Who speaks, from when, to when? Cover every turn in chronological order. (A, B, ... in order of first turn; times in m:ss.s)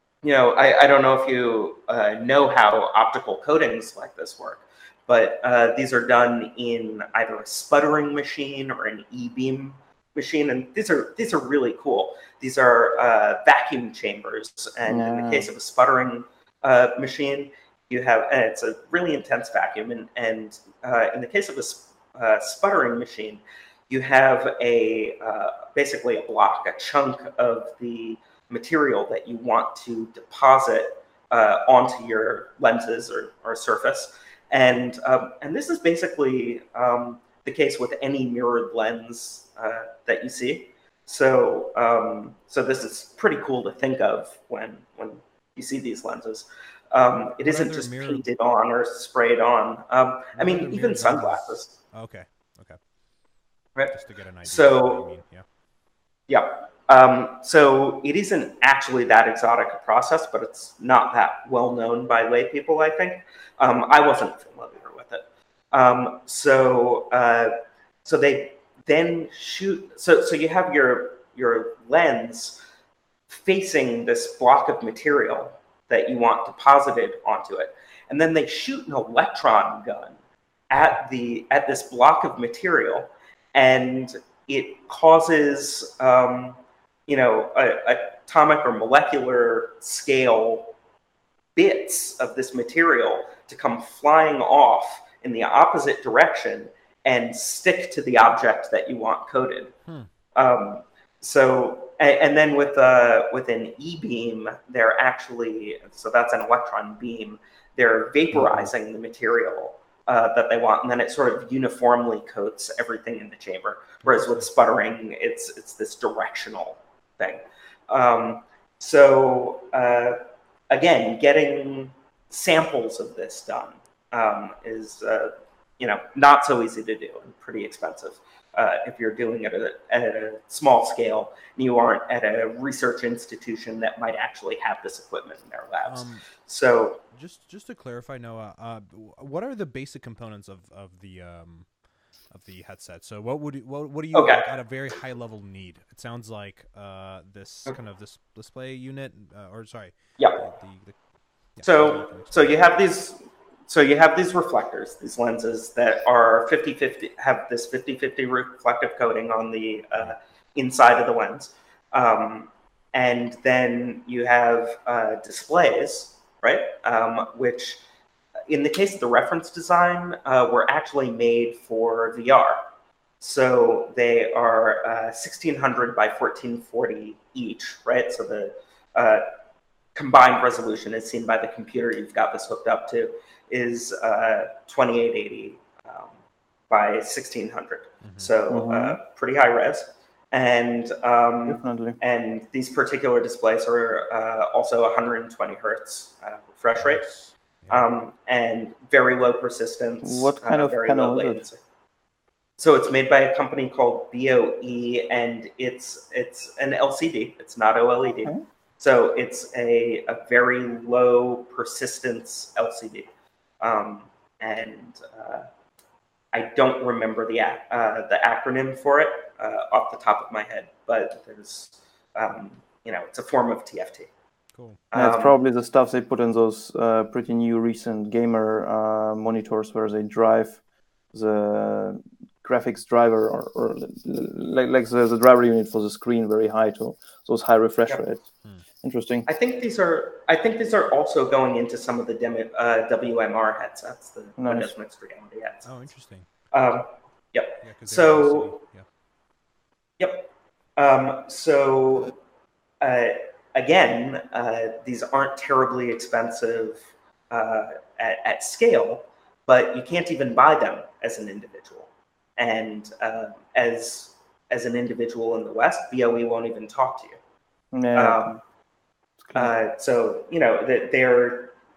0:00.2-0:51.7 A
0:14.9-0:15.5 B
0:47.4-0:48.3 C
0:50.4-0:52.8 C
0:53.8-0:55.0 A
0:53.9-0:55.4 C
0:56.3-1:12.6 A
1:13.3-1:20.2 A
1:20.7-1:30.7 A
1:31.6-1:39.7 A
1:40.4-2:17.0 A
1:48.3-1:48.7 C
1:54.0-1:54.4 C
2:15.8-2:16.3 C
2:17.1-2:21.7 C
2:22.3-2:31.0 C
2:24.1-2:24.4 A
2:31.6-2:32.4 C
2:31.6-2:47.8 A
2:48.5-2:52.6 A
2:53.2-2:59.2 A
2:59.9-3:06.1 A
3:06.7-3:17.0 A
3:08.0-3:08.3 C
3:08.5-3:09.0 B
3:11.5-3:12.0 B
3:16.8-3:17.8 C
3:17.7-3:21.6 A
3:20.0-3:21.4 B
3:22.6-3:33.1 A
3:33.6-3:35.5 A
3:36.3-3:44.1 A
3:44.5-3:44.8 C
3:44.9-3:45.4 A
3:44.9-3:50.6 B
3:51.1-3:58.2 B
3:58.8-3:59.3 B
3:59.3-4:05.7 A
4:04.4-4:04.7 B
4:05.6-4:06.3 C
4:06.5-4:08.5 A
4:07.6-4:08.8 C
4:10.0-4:12.1 A
4:12.8-4:27.2 A
4:27.7-4:28.4 B
4:27.9-4:28.4 A
4:29.2-4:29.5 B
4:29.3-4:31.5 A